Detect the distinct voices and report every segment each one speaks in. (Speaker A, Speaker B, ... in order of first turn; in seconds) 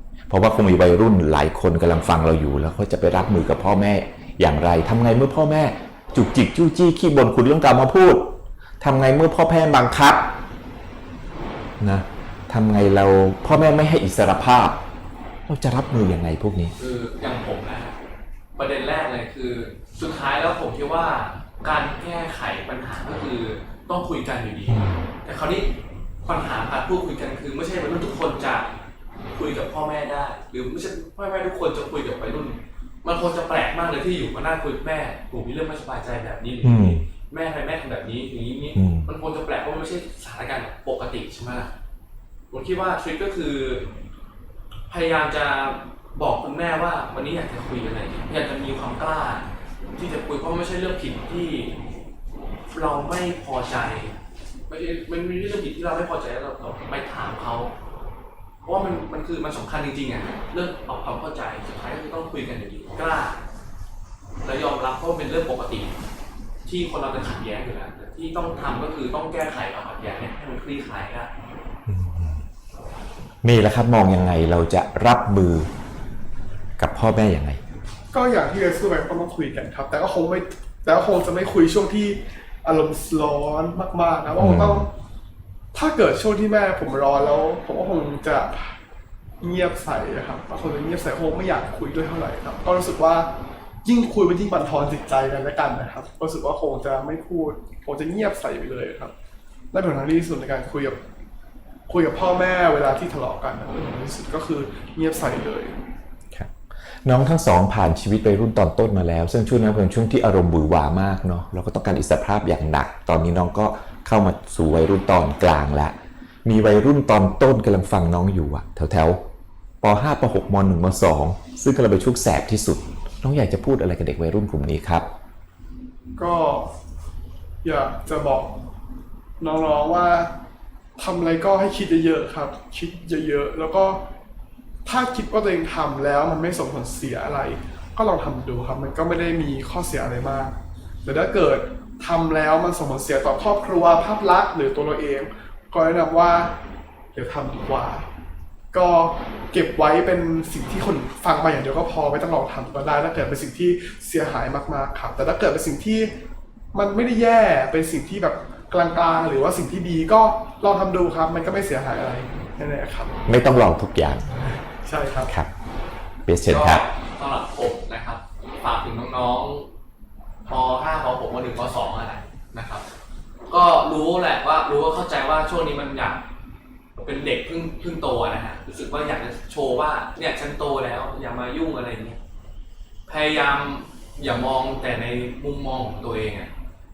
Speaker A: 0.3-10.3, 11.8-14.8, 15.5-16.7, 24.7-25.1, 36.6-37.1, 38.7-39.1, 71.9-72.4, 73.4-75.7, 76.8-77.6, 84.4-84.9, 106.3-119.2, 119.8-125.1, 163.3-164.3, 165.2-165.5, 166.2-166.8
Speaker B: 16.8-17.9, 18.6-25.7, 26.2-28.7, 29.3-41.7, 42.5-43.9, 44.9-49.5, 50.0-51.8, 52.7-54.1, 54.7-57.7, 58.6-63.4, 64.4-65.9, 66.6-71.3, 166.5-169.7, 170.4-172.8, 173.5-176.2, 176.9-182.2, 183.1-186.5
Speaker C: 78.1-84.9, 85.7-88.8, 89.4-93.3, 93.8-99.1, 99.7-101.0, 101.9-105.8, 126.2-126.7, 127.6-128.6, 129.4-130.3, 131.0-134.0, 134.8-146.5, 147.1-148.1, 148.7-156.1, 156.7-163.2, 164.4-165.3